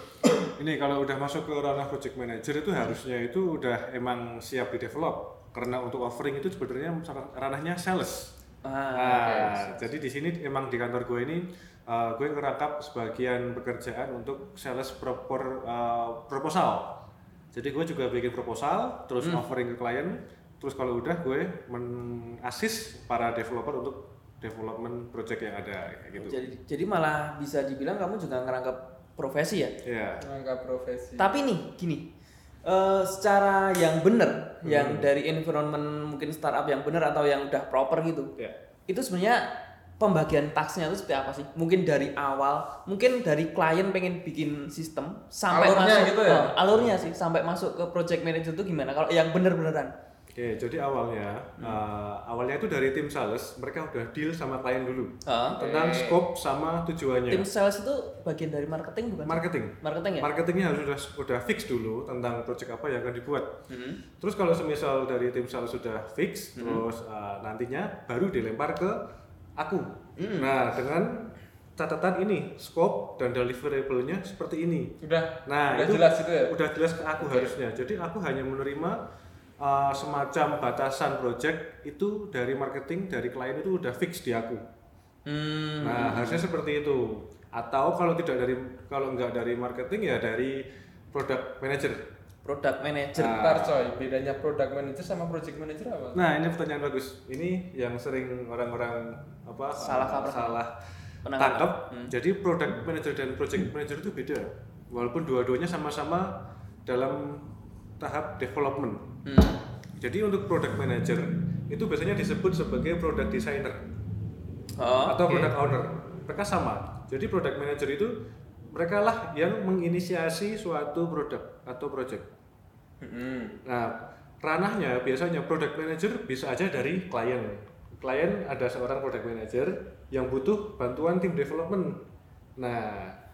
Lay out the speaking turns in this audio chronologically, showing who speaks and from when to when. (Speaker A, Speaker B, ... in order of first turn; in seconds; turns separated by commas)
Speaker A: 0.6-8.3, Speaker B: 8.6-9.6, Speaker A: 8.9-17.0, Speaker C: 9.2-9.6, Speaker A: 17.5-26.4, Speaker B: 19.2-19.5, Speaker B: 26.2-29.7, Speaker A: 29.8-30.2, Speaker C: 30.2-31.3, Speaker B: 31.2-32.1, Speaker B: 32.6-38.3, Speaker A: 34.6-35.1, Speaker B: 38.9-39.5, Speaker B: 40.0-49.9, Speaker C: 45.5-46.6, Speaker A: 50.3-57.5, Speaker B: 55.2-55.6, Speaker C: 55.6-56.2, Speaker B: 57.3-60.3, Speaker A: 59.2-63.5, Speaker B: 63.7-64.0, Speaker A: 64.2-69.0, Speaker B: 66.6-66.8, Speaker A: 69.6-74.9, Speaker B: 70.2-70.5, Speaker C: 75.0-76.5, Speaker A: 75.5-79.0, Speaker C: 77.2-77.5, Speaker A: 79.6-84.6, Speaker B: 85.2-86.4, Speaker A: 85.8-92.0, Speaker B: 92.4-93.4, Speaker A: 93.1-93.8, Speaker C: 93.2-96.2, Speaker A: 96.1-100.7, Speaker B: 99.8-100.6, Speaker B: 101.2-102.1, Speaker A: 101.3-109.2, Speaker B: 109.2-109.6, Speaker A: 110.0-113.8, Speaker B: 114.8-115.5, Speaker A: 115.1-118.2, Speaker A: 118.7-122.3, Speaker C: 123.0-123.6, Speaker A: 123.6-132.0, Speaker A: 132.6-133.2